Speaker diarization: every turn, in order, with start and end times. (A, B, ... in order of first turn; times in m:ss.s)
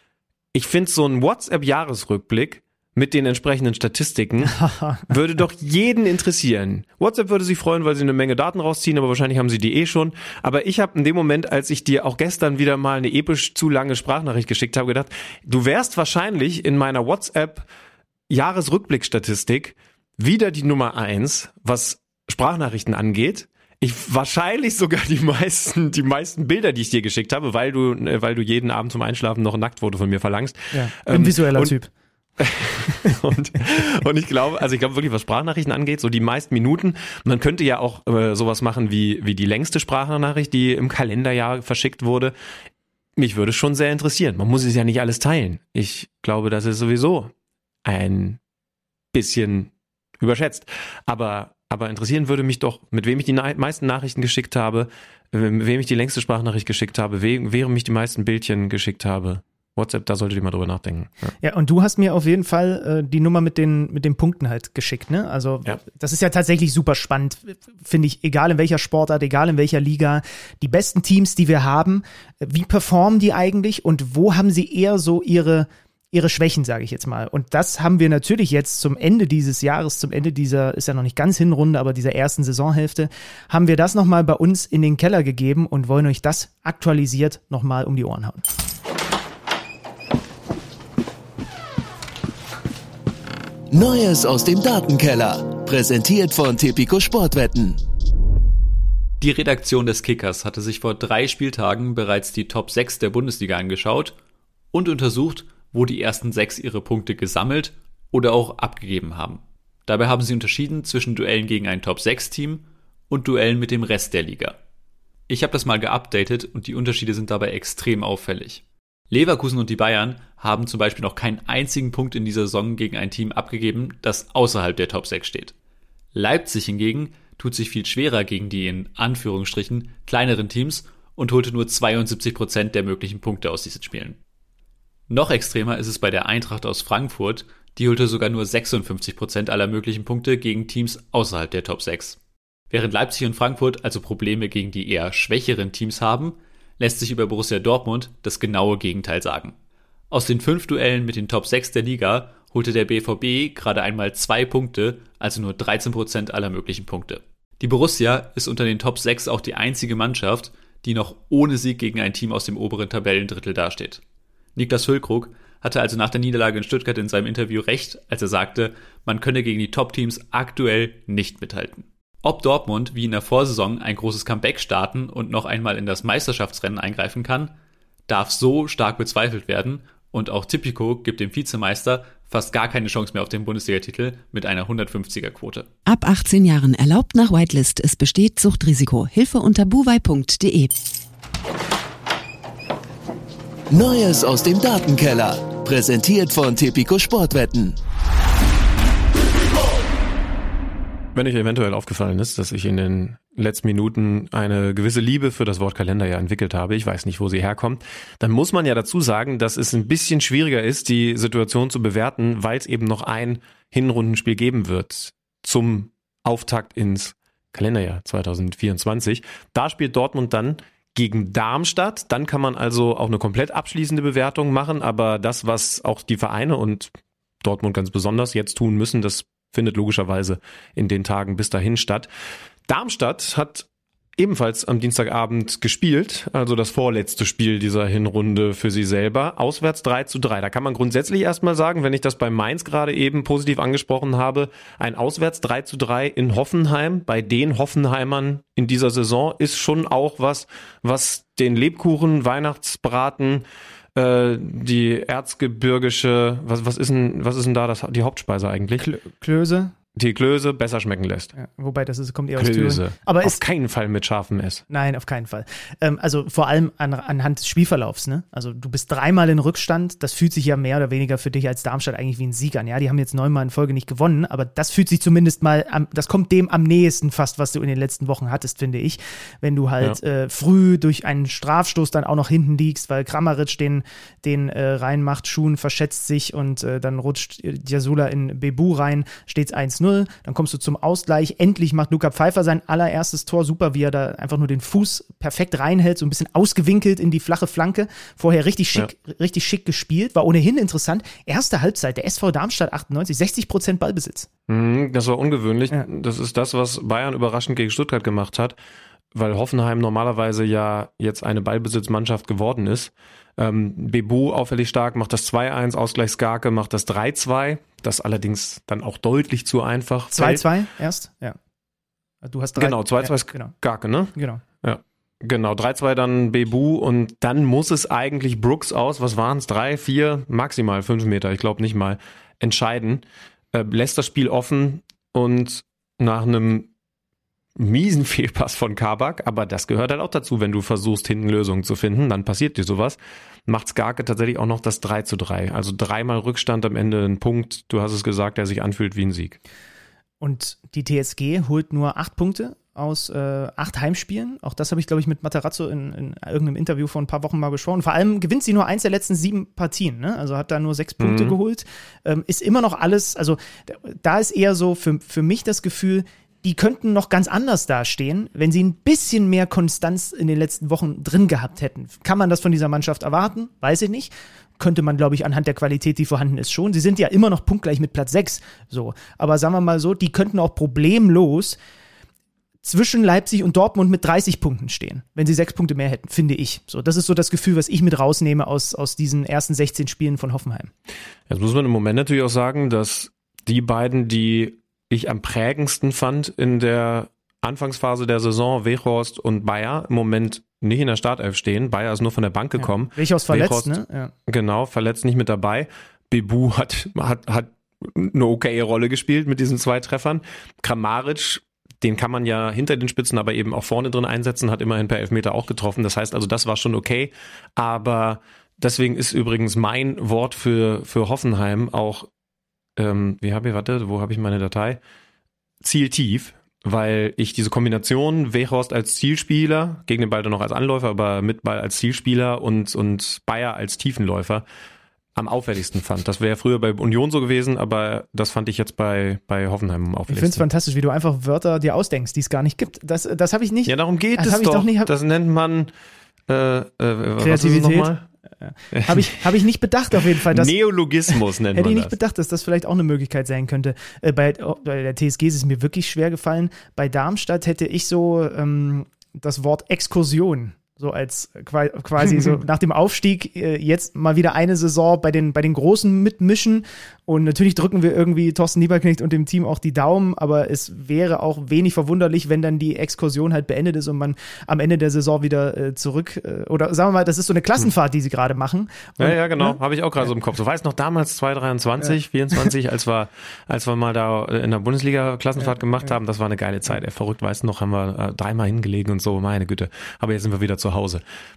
0:00.5-0:17.7 A
0:04.4-0:05.1 B
0:18.3-0:31.8 A
0:30.7-0:31.9 B
0:32.4-0:42.3 A
0:43.2-0:47.3 A
0:47.8-0:48.4 A
0:49.1-1:01.3 A
1:01.4-1:28.4 B
1:33.7-1:37.8 C
1:39.2-1:44.2 D
1:44.7-1:54.6 D
1:55.3-2:05.5 D
2:06.1-2:14.2 D
2:15.1-2:22.2 D
2:22.7-2:29.6 D
2:30.1-2:44.0 D
2:44.6-2:57.5 D
2:58.1-3:05.7 D
3:05.9-3:10.8 E
3:13.7-3:17.8 C
3:21.2-3:52.1 A
3:52.7-4:18.9 A
4:18.8-4:19.7 B
4:20.0-4:21.3 A
4:21.4-4:23.4 B
4:22.4-4:24.6 A
4:24.7-5:04.3 B
5:04.5-5:08.6 A
5:09.1-5:20.5 A
5:20.1-5:21.4 B
5:22.2-5:23.5 B
5:22.6-5:36.7 A
5:24.2-5:24.4 B
5:37.6-5:49.4 A
5:50.2-6:21.6 B
6:01.0-6:01.4 A
6:22.6-6:30.7 B
6:31.3-7:02.1 A
6:42.6-6:44.1 B
7:02.8-7:04.8 A
7:05.6-7:14.4 A
7:15.2-7:20.4 A
7:20.1-7:24.9 B
7:23.7-7:25.7 A
7:26.3-7:28.1 A
7:27.2-7:30.5 B
7:28.7-7:29.2 A
7:30.3-7:32.0 A
7:31.5-7:59.6 B
7:59.0-8:11.0 A